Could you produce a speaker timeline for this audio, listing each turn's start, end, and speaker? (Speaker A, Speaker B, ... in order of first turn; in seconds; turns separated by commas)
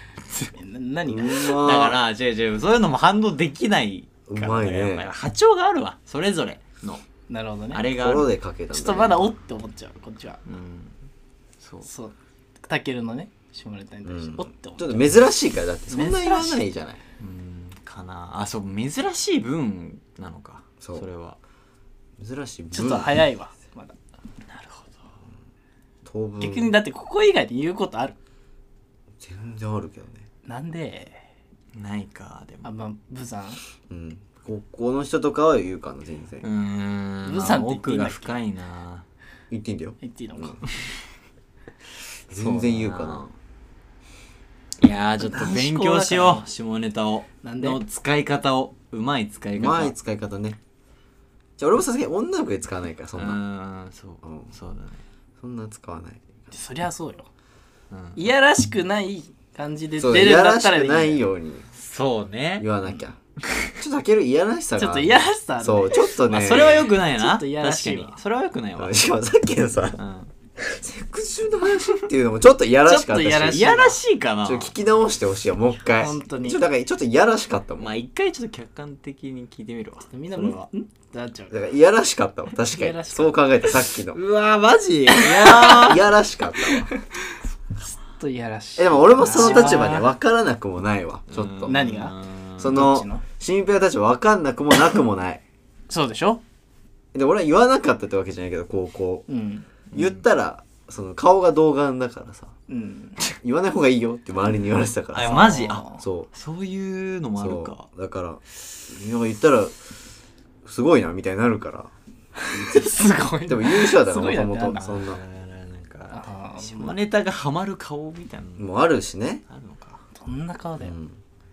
Speaker A: 0.5-1.6, Speaker B: 1.1-2.0, Speaker C: 1.4-7.0, Speaker B: 4.3-5.1, Speaker A: 7.3-7.9, Speaker C: 7.7-8.3, Speaker B: 7.9-9.3, Speaker A: 8.7-10.4, Speaker C: 10.5-10.9, Speaker C: 11.6-11.9, Speaker A: 11.8-12.2, Speaker A: 12.7-15.1, Speaker B: 14.1-17.0, Speaker A: 15.9-16.6, Speaker C: 17.2-21.4, Speaker B: 22.2-23.2, Speaker A: 22.7-24.0, Speaker C: 24.5-24.9, Speaker B: 26.1-26.8, Speaker A: 26.4-28.2, Speaker B: 29.2-30.3, Speaker A: 30.4-31.2, Speaker C: 31.7-32.7, Speaker A: 32.6-33.6, Speaker B: 33.9-36.5, Speaker C: 36.4-39.0, Speaker A: 37.2-38.4, Speaker B: 39.5-40.6, Speaker A: 40.0-40.7, Speaker B: 42.3-43.4, Speaker C: 42.3-43.2, Speaker C: 44.8-49.9, Speaker A: 45.2-46.5, Speaker A: 47.4-47.8, Speaker B: 49.6-50.6, Speaker B: 51.6-53.4, Speaker C: 53.2-55.0, Speaker B: 54.2-54.5, Speaker B: 55.4-56.3, Speaker A: 56.5-57.3, Speaker C: 57.9-58.2, Speaker A: 58.2-61.2, Speaker B: 60.0-61.7, Speaker C: 61.8-62.7, Speaker B: 62.6-63.2, Speaker B: 63.7-66.9, Speaker A: 64.8-68.2, Speaker C: 66.3-69.0, Speaker B: 68.8-70.0, Speaker C: 70.0-70.3, Speaker B: 70.6-73.8, Speaker A: 72.9-74.0, Speaker C: 73.4-74.7, Speaker B: 74.4-77.9, Speaker A: 76.0-76.6, Speaker C: 77.8-80.7, Speaker A: 80.1-81.6, Speaker B: 81.5-84.2, Speaker A: 82.7-83.4, Speaker C: 84.1-86.1, Speaker B: 85.3-86.9, Speaker A: 86.9-87.4, Speaker A: 87.9-90.1, Speaker B: 88.8-91.9, Speaker C: 89.2-89.9, Speaker C: 91.3-92.8, Speaker A: 91.7-93.2, Speaker B: 92.6-95.4, Speaker A: 95.9-96.4, Speaker B: 97.1-99.3, Speaker A: 99.3-99.7, Speaker B: 99.9-102.5, Speaker C: 99.9-100.2, Speaker A: 102.7-103.2, Speaker B: 103.4-106.3, Speaker C: 105.1-107.9, Speaker A: 105.2-106.0, Speaker B: 107.4-109.8, Speaker B: 110.7-111.9, Speaker A: 112.4-114.9, Speaker B: 112.5-113.0, Speaker B: 113.5-115.2, Speaker C: 114.8-118.7, Speaker A: 116.1-117.0, Speaker B: 118.6-119.4, Speaker C: 119.5-120.0, Speaker A: 120.2-121.0, Speaker B: 120.8-121.2